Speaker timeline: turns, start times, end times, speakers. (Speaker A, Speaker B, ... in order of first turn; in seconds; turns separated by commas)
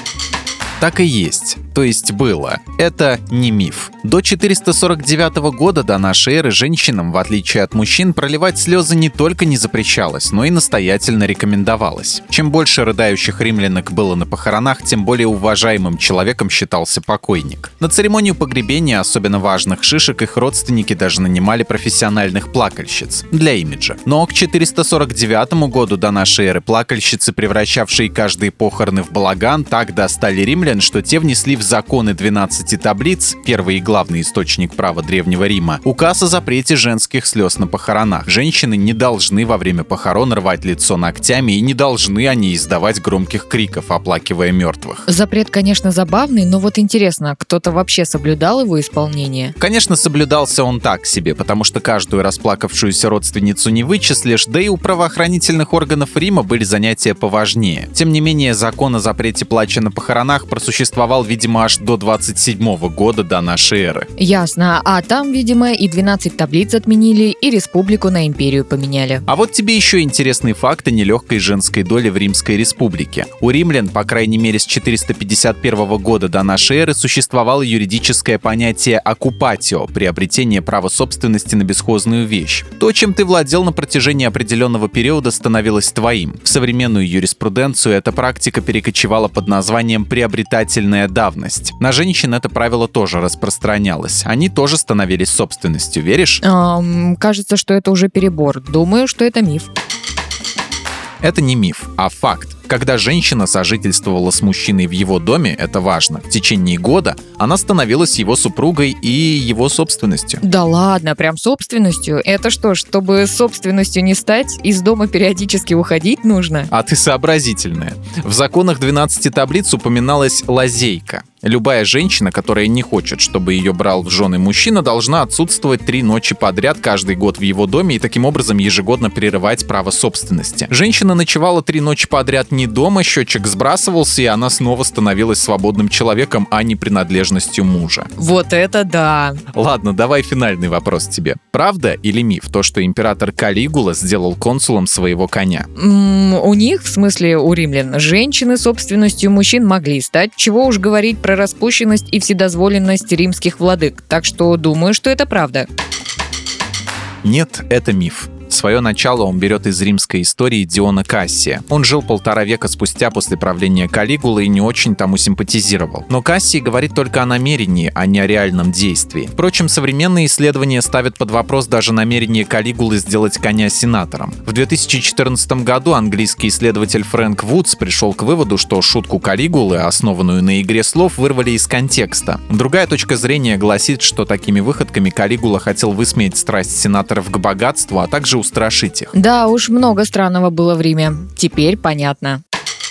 Speaker A: 0.8-45.1, Speaker B: 45.1-49.5, Speaker A: 49.6-64.1, Speaker B: 64.2-69.2, Speaker A: 69.3-96.4, Speaker B: 96.4-99.7, Speaker A: 101.2-110.4, Speaker B: 110.4-116.7, Speaker A: 116.7-138.1, Speaker B: 138.2-139.4, Speaker A: 139.5-145.7, Speaker B: 145.8-155.7, Speaker A: 157.2-189.1, Speaker B: 189.1-192.4